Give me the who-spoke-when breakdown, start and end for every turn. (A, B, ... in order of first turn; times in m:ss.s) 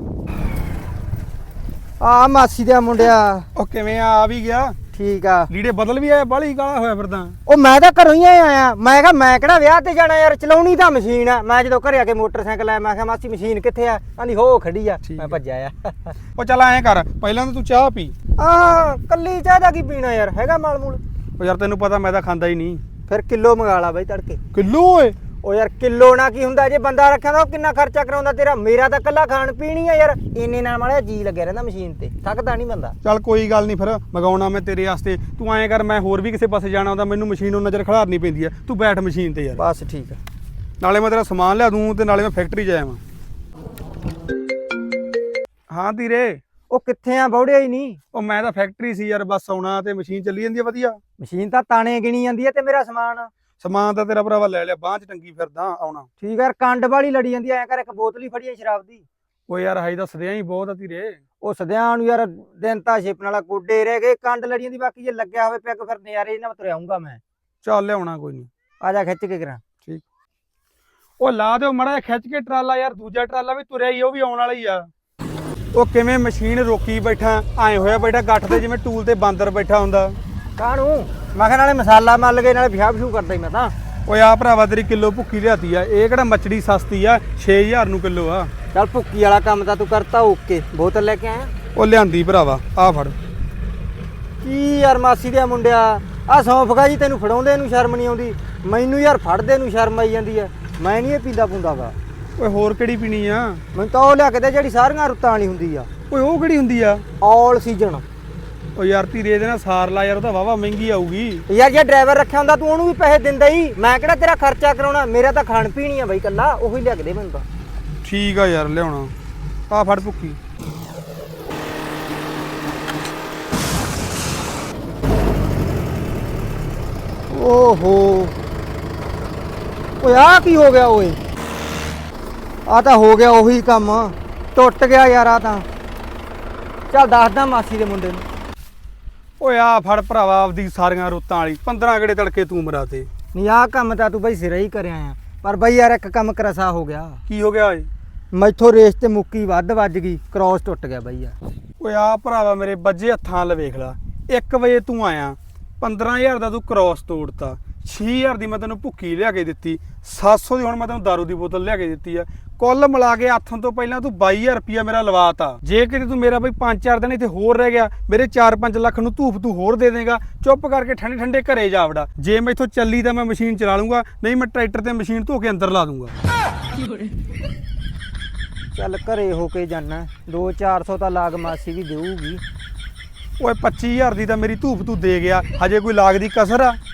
0:02.0-0:03.5 A
0:03.6-0:04.8 B
0:04.9-0:05.5 A
0:05.5-0:07.4 B
0:07.5-0:16.2 A
0:15.0-0:15.4 B
0:16.4-0:18.2 B
0:18.4-0:21.0 A
0:21.4-0:22.8 B
0:23.1-0:24.4 A
0:24.5-0:25.2 B
0:25.4-0:33.0 A
0:33.0-0:39.6 B
0:39.6-0:40.2 A
0:40.8-0:43.0 B
0:45.7-0:46.4 B
0:46.7-0:48.0 A
0:48.1-0:51.0 B
0:51.2-0:53.3 A
0:53.6-0:56.1 B
0:56.2-0:59.1 A
0:59.5-1:01.2 B
1:01.4-1:07.2 A
1:07.6-1:08.5 B
1:08.8-1:09.6 A
1:11.2-1:14.9 B
1:15.7-1:20.2 B
1:20.6-1:23.7 A
1:24.1-1:28.5 B
1:28.7-1:31.5 A
1:31.7-1:33.2 B
1:34.4-1:42.0 A
1:42.4-1:43.6 B
1:43.7-1:45.9 A
1:46.1-1:47.0 B
1:47.2-1:48.0 A
1:48.8-1:51.4 B
1:51.5-1:57.5 A
1:58.0-1:59.1 B
1:59.7-2:00.4 B
2:07.3-2:08.4 A
2:10.0-2:11.2 A
2:12.7-2:15.7 A
2:16.9-2:18.3 A
2:19.4-2:23.1 B
2:23.3-2:27.2 A
2:27.3-2:27.9 B
2:28.3-2:31.4 A
2:31.8-2:56.2 B
2:58.7-3:02.4 A
3:03.4-3:06.8 B